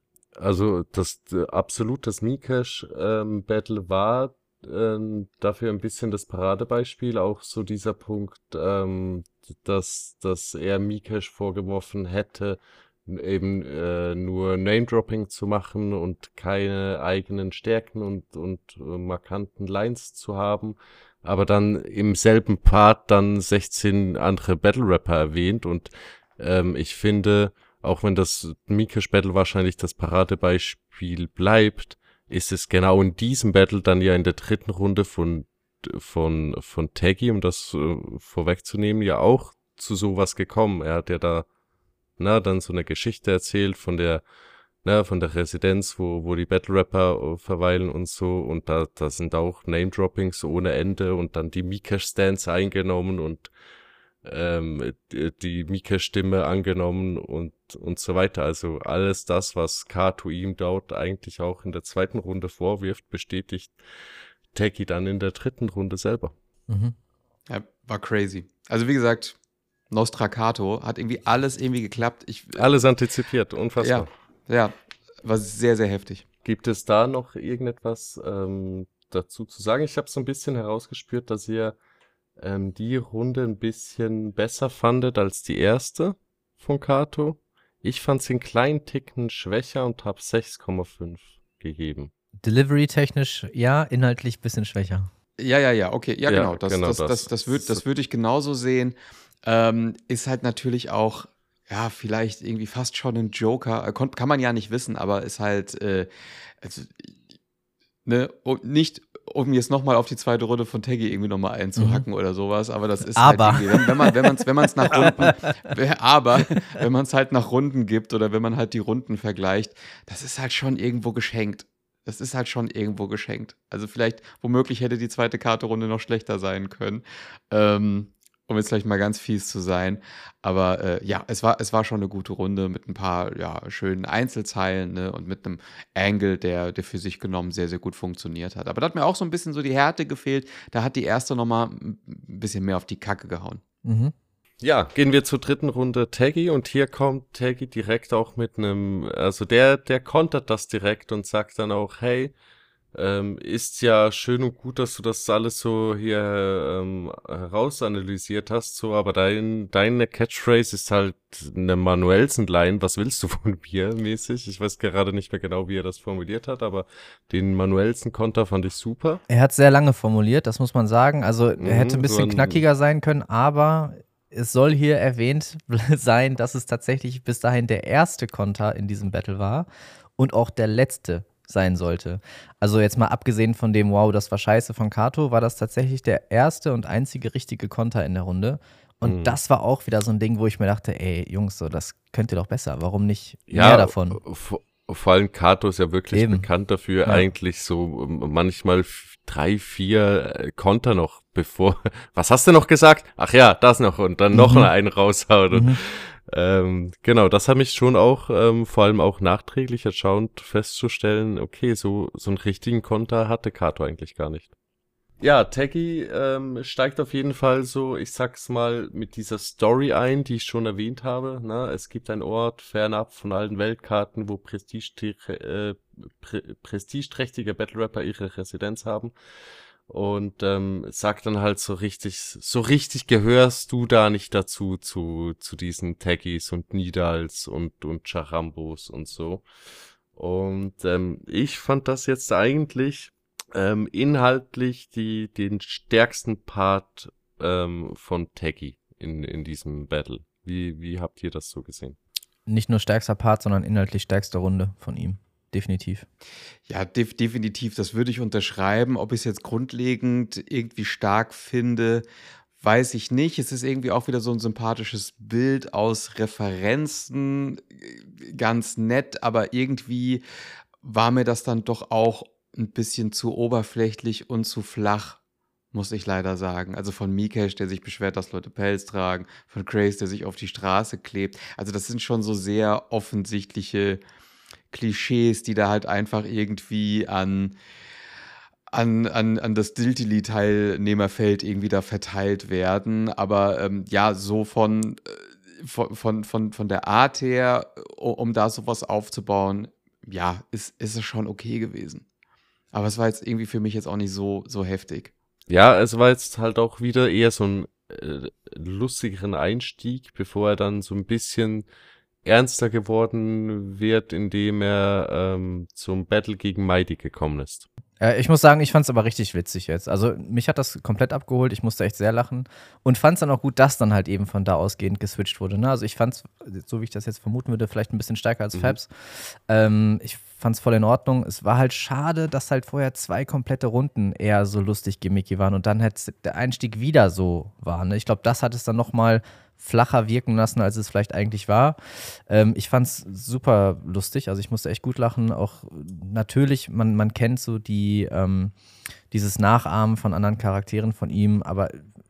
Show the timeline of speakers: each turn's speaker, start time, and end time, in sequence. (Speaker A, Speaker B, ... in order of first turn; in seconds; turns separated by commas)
Speaker A: 0.4-41.5, Speaker A: 42.2-44.2, Speaker A: 44.8-53.5, Speaker A: 54.2-63.8, Speaker A: 64.5-66.3, Speaker B: 66.7-67.0, Speaker C: 67.5-69.3, Speaker C: 69.9-72.7, Speaker A: 72.6-74.1, Speaker C: 73.8-76.2, Speaker A: 76.4-81.8, Speaker A: 82.4-92.1, Speaker B: 92.4-95.1, Speaker C: 95.4-106.1, Speaker A: 96.3-97.8, Speaker C: 106.6-107.2, Speaker C: 108.0-143.6, Speaker B: 111.8-112.0, Speaker B: 113.2-114.3, Speaker B: 114.9-115.5, Speaker B: 143.8-144.1, Speaker A: 144.6-152.3, Speaker A: 152.9-169.2, Speaker B: 169.3-194.2, Speaker A: 171.6-172.6, Speaker A: 189.0-189.4, Speaker A: 193.5-214.5, Speaker B: 196.1-196.5, Speaker B: 204.3-204.7, Speaker B: 205.5-205.8, Speaker A: 215.2-229.1, Speaker A: 229.9-239.4, Speaker A: 240.1-252.0, Speaker B: 252.5-256.1, Speaker C: 256.7-262.1, Speaker C: 262.6-270.2, Speaker C: 270.8-275.2, Speaker C: 275.7-284.0, Speaker C: 284.7-287.6, Speaker C: 288.7-302.0, Speaker C: 302.7-305.1, Speaker A: 305.5-311.7, Speaker A: 312.2-317.7, Speaker B: 318.0-348.5, Speaker B: 349.1-351.8